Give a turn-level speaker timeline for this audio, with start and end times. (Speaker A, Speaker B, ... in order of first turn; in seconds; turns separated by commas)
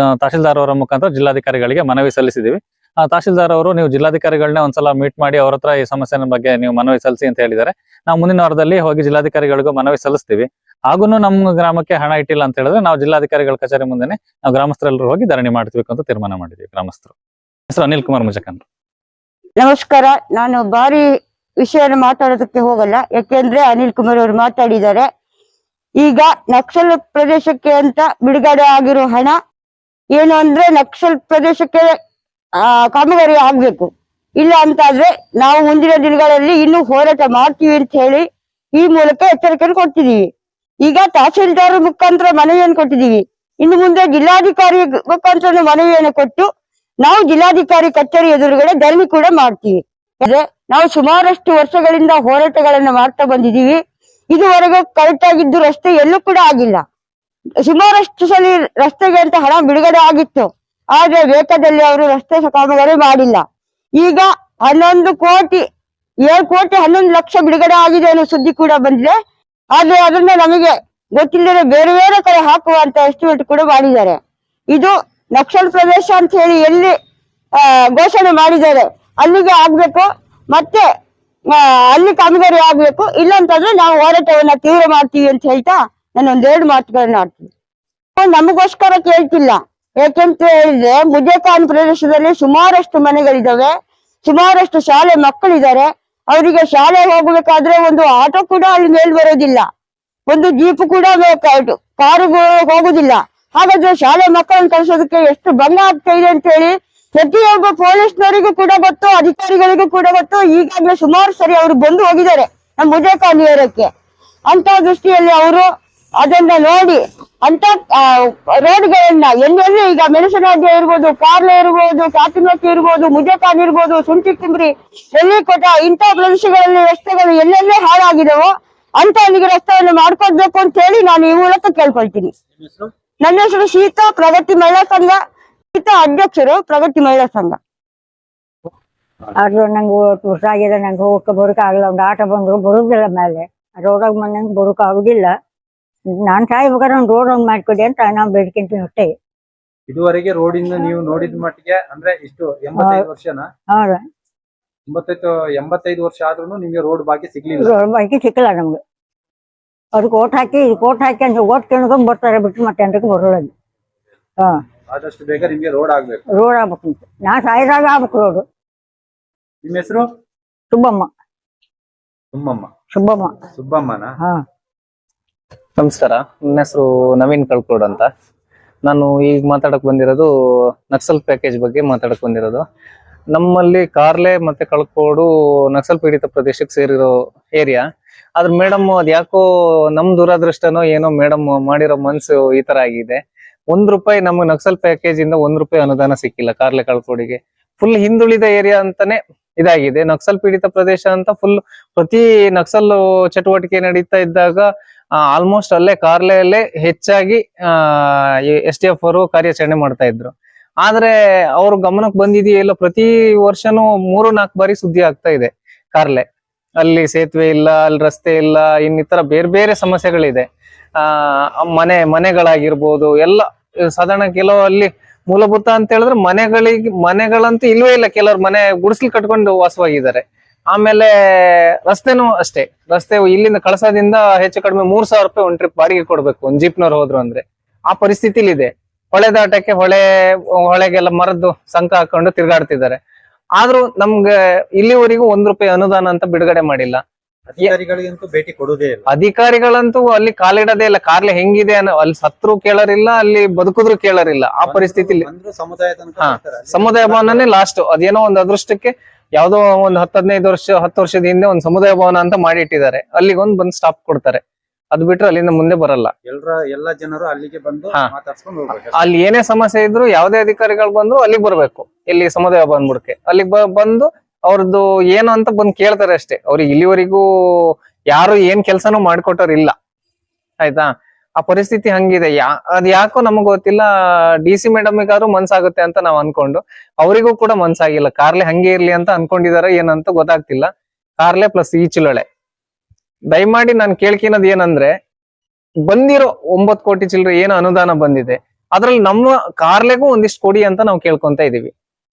Speaker A: 0.2-17.1, Speaker A: 17.7-18.6, Speaker B: 19.6-21.0, Speaker B: 21.6-25.1, Speaker B: 26.0-29.3, Speaker B: 30.1-31.9, Speaker B: 32.9-38.2, Speaker B: 38.8-40.2, Speaker B: 40.8-46.5, Speaker B: 47.0-53.8, Speaker B: 54.3-56.8, Speaker B: 57.6-63.4, Speaker B: 64.0-65.6, Speaker B: 66.3-69.1, Speaker B: 69.7-74.2, Speaker B: 74.7-76.9, Speaker B: 77.6-80.8, Speaker B: 81.5-87.5, Speaker B: 88.2-93.7, Speaker B: 94.2-99.7, Speaker B: 100.3-113.9, Speaker B: 114.5-115.7, Speaker B: 116.2-132.3, Speaker C: 132.6-132.9, Speaker B: 133.2-135.2, Speaker B: 135.7-137.6, Speaker D: 139.4-145.3, Speaker D: 146.2-149.1, Speaker C: 149.9-153.4, Speaker D: 152.8-153.1, Speaker D: 153.7-154.0, Speaker C: 154.9-157.7, Speaker D: 157.6-158.8, Speaker D: 159.9-163.5, Speaker C: 164.9-166.2, Speaker D: 166.3-168.4, Speaker C: 169.6-170.1, Speaker D: 170.7-171.1, Speaker C: 172.3-172.7, Speaker D: 172.9-173.3, Speaker C: 173.5-174.2, Speaker E: 175.8-178.1, Speaker E: 178.8-180.3, Speaker E: 180.9-182.6, Speaker E: 183.3-187.8, Speaker E: 188.4-193.2, Speaker E: 193.7-204.7, Speaker E: 205.2-216.2, Speaker E: 216.8-220.4, Speaker E: 221.0-243.0, Speaker E: 243.6-247.0, Speaker C: 247.5-249.1, Speaker E: 249.1-255.3, Speaker C: 254.7-257.5, Speaker E: 256.2-264.4, Speaker E: 264.9-266.1, Speaker C: 266.2-269.1, Speaker E: 268.9-279.7, Speaker E: 280.6-290.7, Speaker E: 291.2-292.2, Speaker E: 293.3-294.9, Speaker E: 295.9-301.7